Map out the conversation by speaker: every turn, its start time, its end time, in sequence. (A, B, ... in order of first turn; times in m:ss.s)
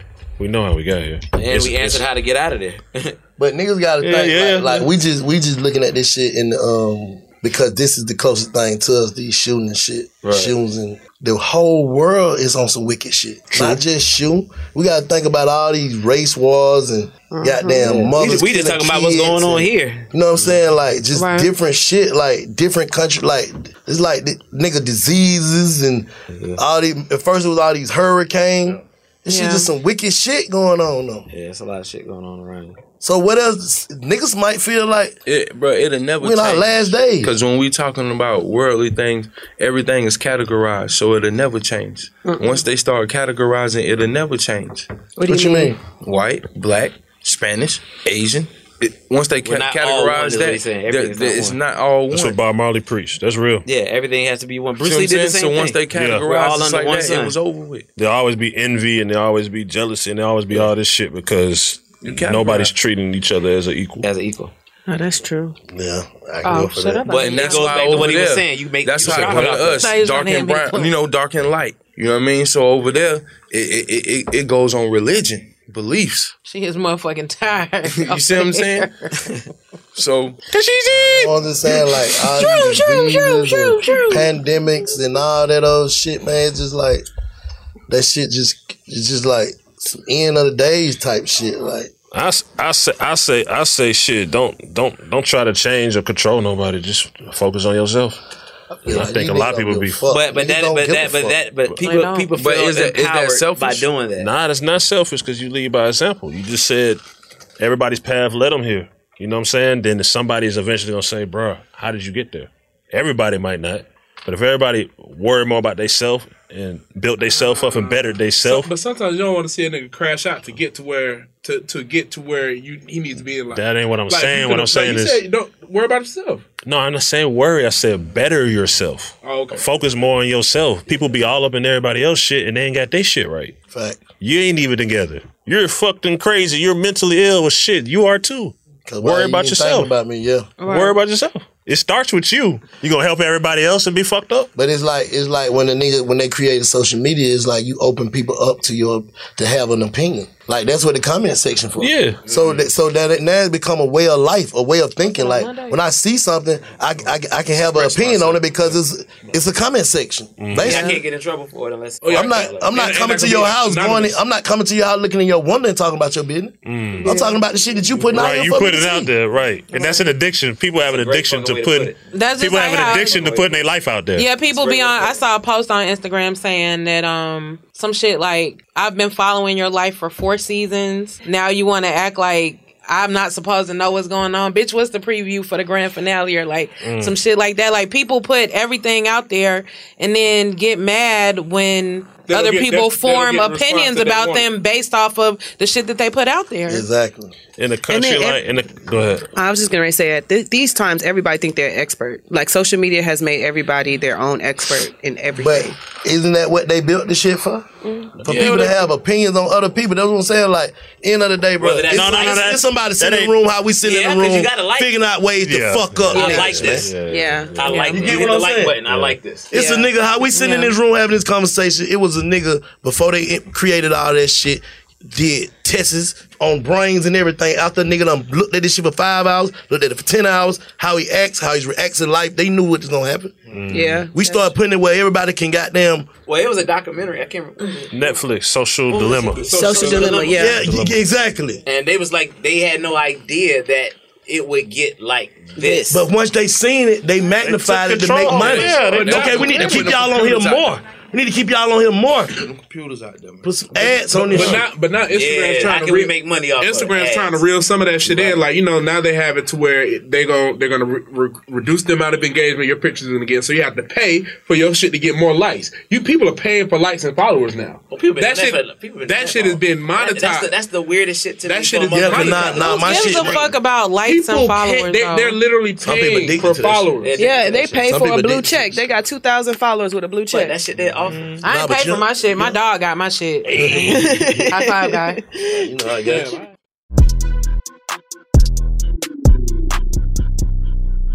0:00.4-0:02.0 A
0:01.4-0:03.2 B
0:03.4-0:31.3 C
0:04.0-0:04.9 A
0:10.2-0:10.5 B
0:17.3-0:17.9 D
0:17.8-0:20.1 B
0:21.1-0:21.5 E
0:26.3-0:26.6 B
0:29.3-0:29.7 E
0:31.3-0:32.8 B
0:33.0-0:35.2 C
0:35.2-0:44.9 F
0:36.2-0:37.3 C
0:42.2-0:42.6 D
0:45.2-0:45.8 D
0:45.2-0:45.8 C
0:45.8-0:52.4 F
0:49.4-0:51.6 B
0:52.1-0:53.7 A
0:53.6-0:57.4 B
0:54.8-0:57.9 F
0:55.9-0:56.2 A
0:58.0-1:04.1 A
1:02.0-1:02.8 F
1:04.0-1:04.5 B
1:04.9-1:05.5 D
1:05.7-1:07.1 C
1:06.4-1:07.6 D
1:06.6-1:08.0 E
1:07.1-1:09.9 B
1:07.2-1:16.3 F
1:09.6-1:10.9 E
1:16.4-1:19.1 E
1:17.8-1:18.9 F
1:19.9-1:20.4 F
1:20.5-1:21.3 A
1:20.9-1:27.1 C
1:21.7-1:24.3 E
1:27.9-1:31.9 C
1:32.1-1:38.2 A
1:38.8-1:41.4 C
1:38.9-1:40.0 A
1:40.1-1:44.3 B
1:41.8-1:42.3 E
1:42.4-1:43.9 F
1:44.2-1:47.0 A
1:47.6-1:58.7 A
1:58.4-2:06.5 G
2:03.5-2:05.2 A
2:06.6-2:13.5 A
2:09.2-2:09.7 G
2:13.7-2:14.0 C
2:14.2-2:19.9 A
2:18.9-2:20.5 C
2:20.6-2:20.9 D
2:20.6-2:24.5 A
2:24.6-2:41.0 C
2:31.8-2:32.2 A
2:35.1-2:35.8 E
2:37.7-2:38.8 G
2:40.4-2:40.9 A
2:40.6-2:43.0 B
2:42.0-2:44.2 G
2:42.1-2:49.1 C
2:46.6-2:47.2 A
2:47.0-2:47.4 D
2:48.1-2:54.3 A
2:49.7-2:50.0 D
2:50.8-2:52.0 B
2:52.1-2:53.2 E
2:52.9-2:53.5 B
2:54.1-3:16.8 E
2:54.5-2:55.2 B
3:06.8-3:07.2 A
3:12.2-3:14.5 G
3:16.6-3:17.3 C
3:17.6-3:19.3 A
3:17.9-3:18.4 D
3:19.3-3:25.8 D
3:25.4-3:27.7 C
3:27.8-3:28.7 D
3:28.2-3:28.6 A
3:28.2-3:36.9 C
3:31.6-3:32.6 B
3:31.9-3:33.3 A
3:33.8-3:34.9 B
3:35.4-3:38.2 A
3:36.1-3:36.9 B
3:36.2-3:36.4 D
3:37.0-3:37.7 D
3:37.5-3:39.5 B
3:37.7-3:38.8 C
3:38.8-3:39.2 A
3:39.5-3:40.7 D
3:39.5-3:53.4 C
3:53.5-3:54.0 A
3:53.7-3:54.5 D
3:54.1-3:56.1 C
3:56.3-3:57.9 B
3:57.9-3:59.5 A
3:58.9-4:00.6 B
3:59.4-4:00.3 G
3:59.5-4:00.6 D
4:00.2-4:01.6 C
4:00.5-4:01.0 A
4:01.6-4:06.0 B
4:05.6-4:05.9 D
4:05.9-4:12.4 C
4:07.4-4:09.9 A
4:08.3-4:10.8 F
4:08.9-4:09.9 G
4:12.4-4:14.6 F
4:13.4-4:14.7 C
4:14.1-4:30.5 G
4:15.1-4:17.4 B
4:18.0-4:18.4 B
4:27.9-4:33.4 B
4:31.4-4:33.4 G
4:31.9-4:33.5 C
4:32.6-4:35.4 E
4:34.0-4:37.1 G
4:35.8-4:36.9 C
4:37.0-4:37.8 B
4:37.2-4:40.5 D
4:37.8-4:38.8 C
4:40.3-4:41.4 B
4:41.4-4:43.6 E
4:41.4-4:42.6 C
4:43.4-4:44.5 C
4:43.7-4:45.6 D
4:44.5-4:45.2 E
4:45.5-4:46.4 C
4:46.1-4:46.5 G